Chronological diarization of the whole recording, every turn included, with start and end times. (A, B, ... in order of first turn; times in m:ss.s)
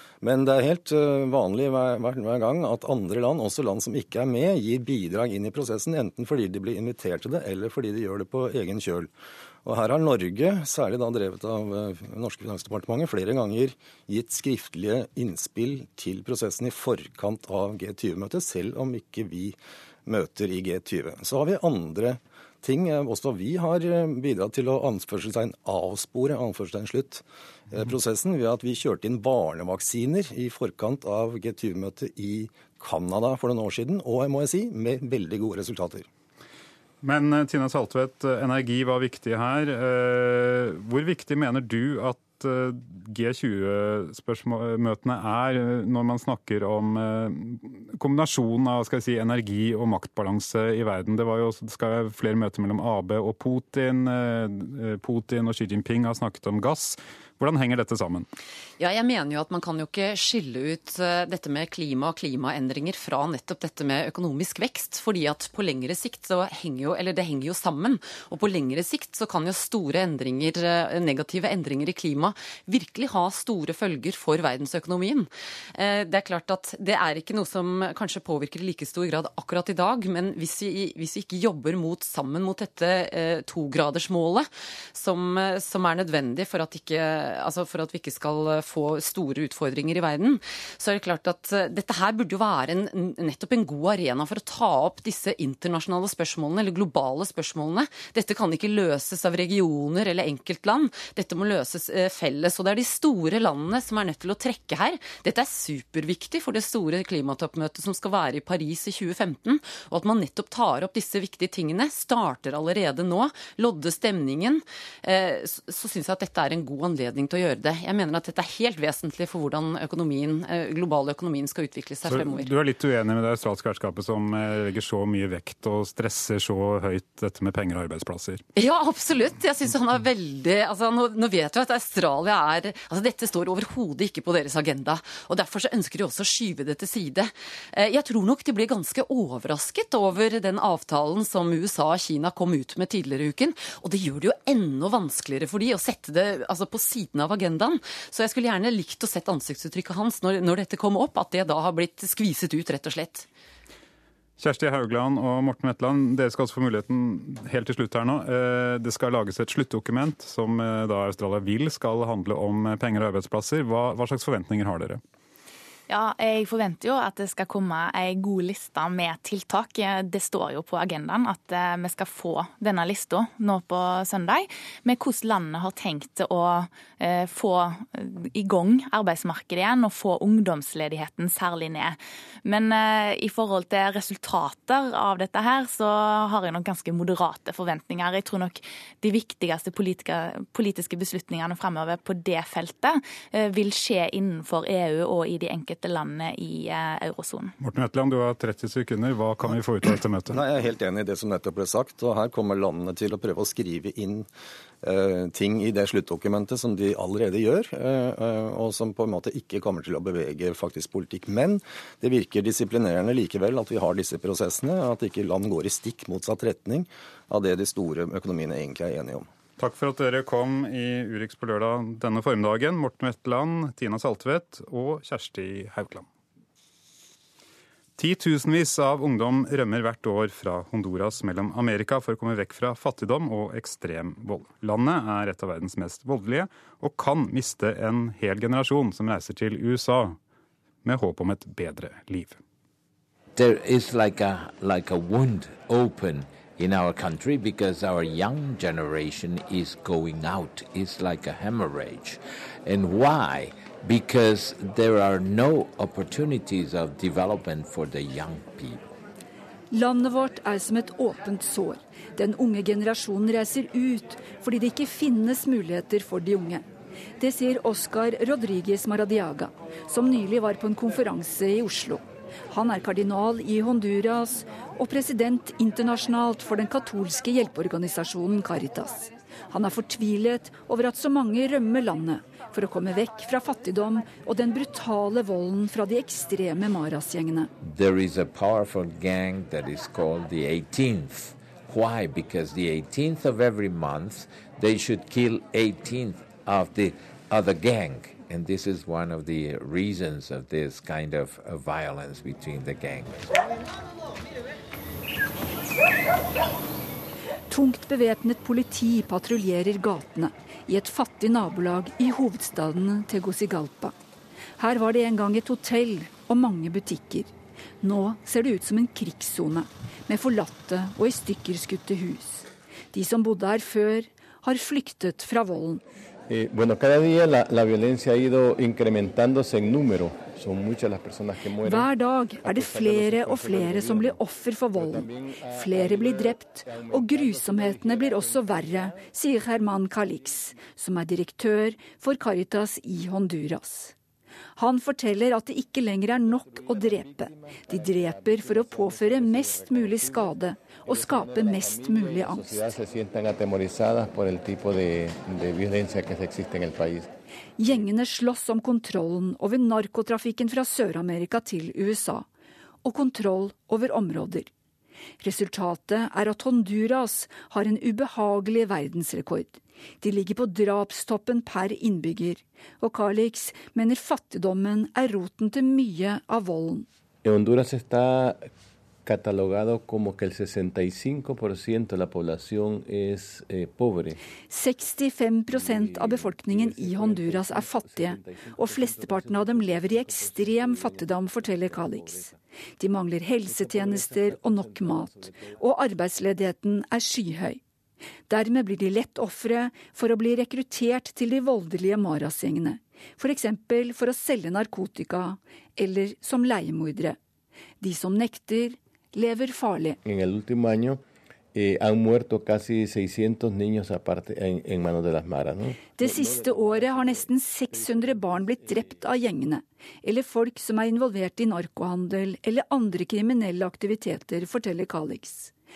0:00.2-0:09.1 A
0:09.6-0:36.1 A
0:37.0-0:58.3 B
0:58.8-2:02.5 C
2:02.1-2:08.4 B
2:08.6-2:33.3 C
2:34.4-2:45.0 B
2:45.9-3:17.5 D
3:17.6-3:20.4 B
3:20.3-3:24.3 A
3:24.8-3:39.3 A
3:39.6-3:46.0 B
3:48.0-4:00.2 B
4:00.8-4:02.4 B
4:03.3-4:18.9 E
4:19.7-4:26.6 F
4:27.2-4:47.5 F
4:47.6-5:03.4 E
5:07.5-5:13.9 F
5:14.6-5:25.8 F
5:26.3-5:31.9 G
5:31.6-5:43.9 F
5:32.4-5:34.2 G
5:34.8-5:37.0 G
5:44.6-5:52.6 F
5:51.2-5:57.1 G
5:57.6-6:02.3 F
6:02.8-6:04.5 F
6:05.2-6:16.9 F
6:17.2-6:18.5 G
6:19.0-6:24.2 G
6:24.5-6:32.2 F
6:25.5-6:32.4 G
6:32.8-6:37.6 F
6:33.4-6:35.4 G
6:38.3-6:47.2 F
6:47.8-6:50.0 F
6:50.0-6:51.0 G
6:51.5-6:57.2 G
6:55.9-7:05.5 F